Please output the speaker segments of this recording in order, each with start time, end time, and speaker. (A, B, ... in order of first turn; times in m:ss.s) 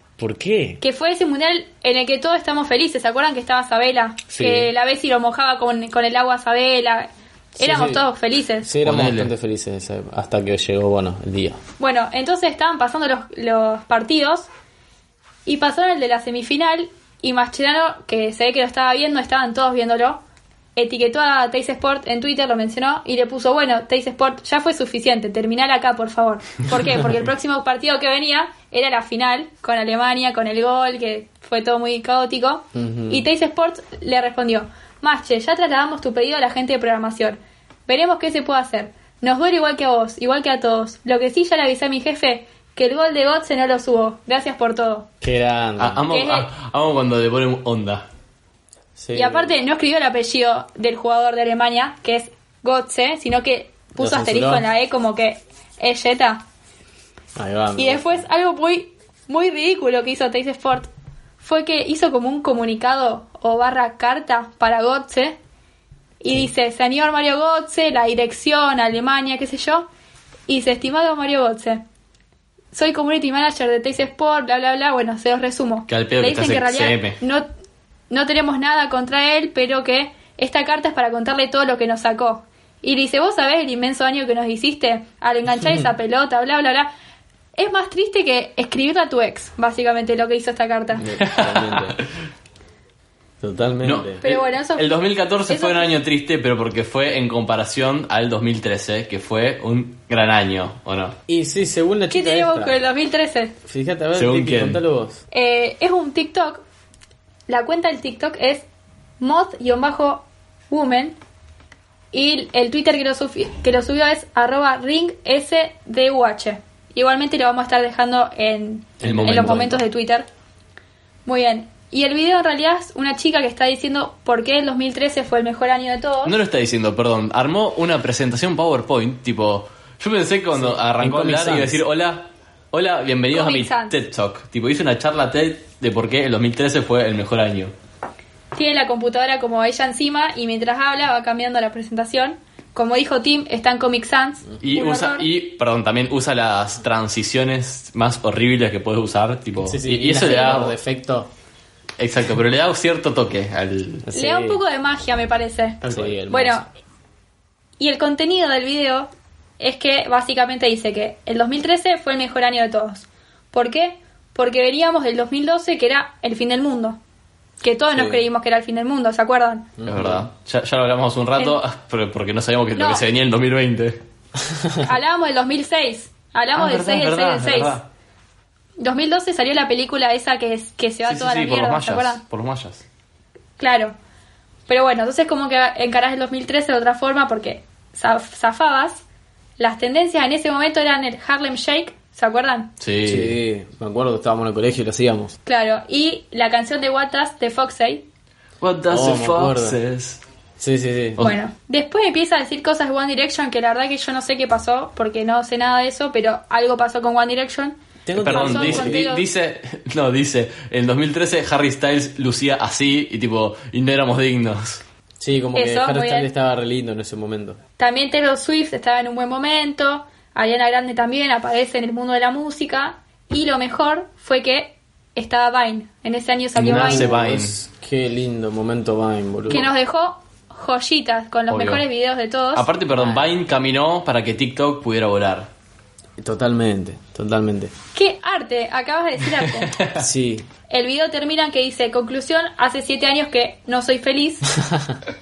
0:00.2-0:00.8 A
0:00.8-0:08.7 B
0:04.3-0:04.7 A
0:07.6-0:08.0 A
0:08.6-0:11.6 A
0:08.8-0:09.3 C
0:11.8-0:14.5 B
0:15.5-0:20.2 B
0:20.8-0:45.1 B
0:32.7-0:33.3 A
0:45.2-0:46.0 A
0:45.8-0:48.1 C
0:46.1-0:46.5 B
0:49.0-0:49.5 A
0:49.1-0:56.4 B
0:54.0-0:54.7 A
0:57.4-0:58.3 A
0:57.8-1:00.9 B
1:01.4-1:05.4 B
1:06.2-1:09.9 B
1:10.5-1:11.8 B
1:12.7-1:17.5 B
1:15.9-1:17.2 C
1:18.1-1:26.9 B
1:27.6-1:31.0 B
1:30.9-1:32.0 A
1:31.2-1:32.0 C
1:33.4-1:34.2 A
1:33.8-1:41.2 C
1:34.2-1:34.9 B
1:35.5-1:36.0 B
1:41.3-1:42.8 A
1:42.1-1:43.5 B
1:43.6-1:45.2 A
1:44.2-1:44.8 C
1:45.3-1:46.6 B
1:47.5-1:48.7 B
1:49.2-1:51.2 B
1:52.1-2:00.3 B
1:59.0-1:59.8 C
1:59.0-1:59.7 A
2:01.3-2:06.4 B
2:06.2-2:17.7 C
2:10.6-2:11.8 A
2:13.3-2:14.0 B
2:18.5-2:25.3 B
2:24.6-2:30.8 C
2:29.6-2:31.3 A
2:30.2-2:30.6 B
2:32.0-2:34.1 C
2:34.0-2:34.6 A
2:34.1-2:36.7 B
2:35.8-2:36.7 A
2:35.9-2:36.1 C
2:37.8-2:47.0 B
2:47.6-2:49.7 B
2:47.9-2:48.2 A
2:49.8-2:50.3 A
2:49.9-2:54.0 C
2:52.8-2:53.0 B
2:54.4-2:54.9 A
2:54.8-2:57.8 B
2:56.6-2:57.9 C
2:58.8-3:02.2 B
3:01.1-3:02.8 C
3:03.6-3:04.0 B
3:04.7-3:09.0 B
3:09.6-3:12.7 B
3:12.8-3:13.4 C
3:13.0-3:15.4 A
3:15.5-3:18.1 B
3:18.6-3:20.2 C
3:18.9-3:19.8 A
3:20.6-3:21.2 A
3:21.2-3:29.3 B
3:28.0-3:29.0 A
3:28.2-3:34.8 C
3:35.2-3:37.6 A
3:35.5-3:36.3 B
3:37.8-3:47.1 B
3:46.6-3:47.6 C
3:46.6-3:49.7 A
3:49.5-3:52.7 B
3:51.5-3:51.8 C
3:52.6-3:55.5 C
3:53.0-3:53.4 A
3:56.2-3:57.7 A
3:58.0-3:59.7 B
3:59.4-4:00.0 C
4:00.0-4:00.5 A
4:00.7-4:04.5 B
4:04.7-4:04.9 A